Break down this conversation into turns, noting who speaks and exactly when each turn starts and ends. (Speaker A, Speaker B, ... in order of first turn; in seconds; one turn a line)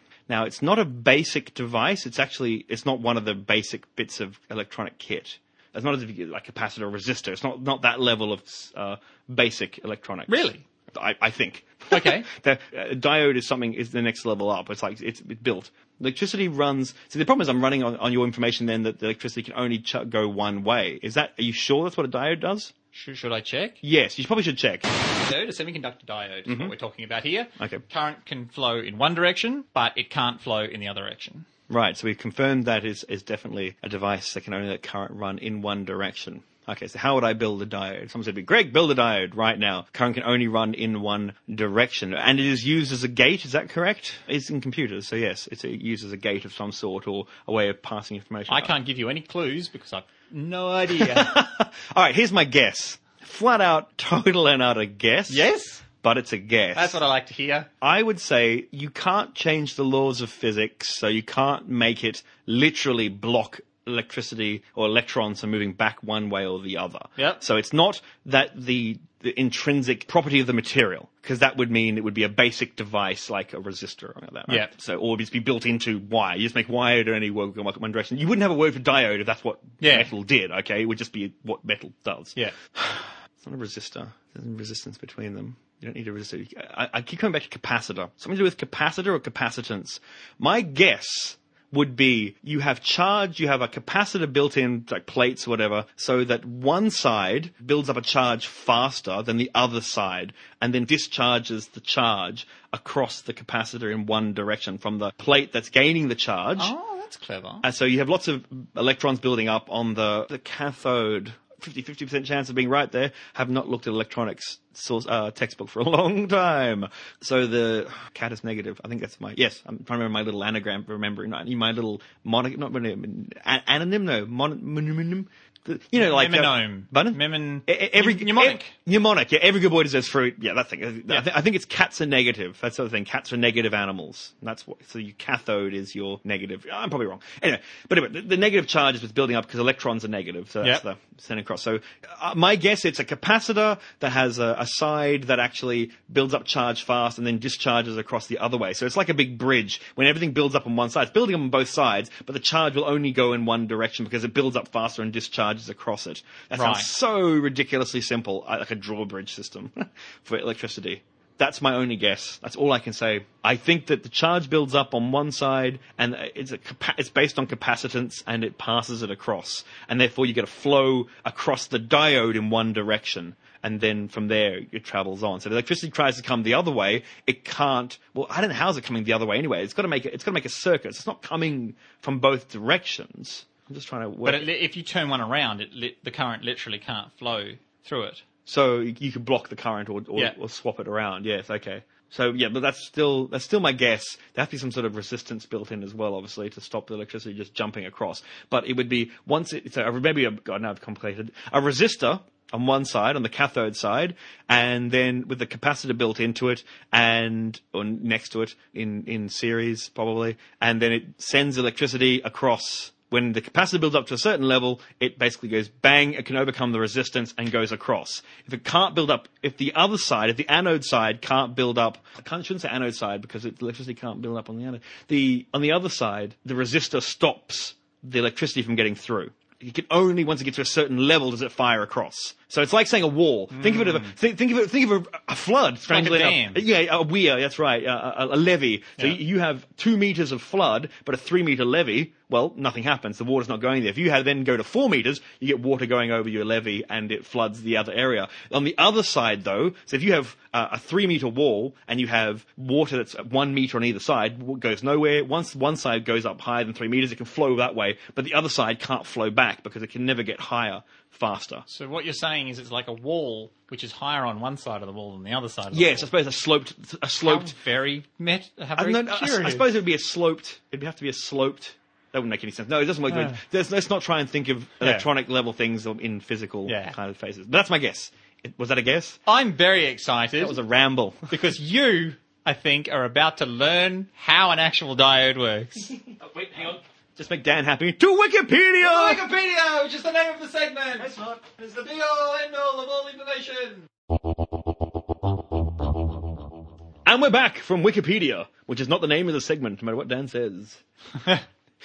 Speaker A: 0.3-22.7
Speaker B: 10.3-10.6
Speaker B: 11.9-12.3
Speaker B: 22.9-23.8
Speaker A: 23.8-24.9
Speaker B: 25.0-31.5
Speaker A: 26.5-26.7
Speaker A: 31.7-48.7
Speaker B: 48.5-51.4
Speaker A: 50.9-55.4
Speaker B: 55.3-55.8
Speaker A: 56.0-57.0
Speaker B: 56.7-57.7
Speaker A: 57.8-106.7
Speaker B: 79.8-80.1
Speaker B: 106.6-107.6
Speaker A: 107.6-184.5
Speaker B: 125.9-128.7
Speaker B: 156.5-156.9
Speaker B: 184.2-188.2
Speaker A: 188.4-261.6
Speaker B: 233.5-234.2
Speaker B: 235.9-236.6
Speaker B: 261.7-266.1
Speaker A: 265.7-267.5
Speaker B: 267.2-269.6
Speaker A: 268.8-279.2
Speaker B: 273.1-273.4
Speaker B: 274.8-275.1
Speaker B: 276.6-276.9
Speaker B: 279.3-280.6
Speaker A: 280.4-281.3
Speaker B: 281.3-285.9
Speaker A: 286.2-289.3
Speaker B: 288.8-293.9
Speaker A: 291.0-291.4
Speaker A: 297.1-300.8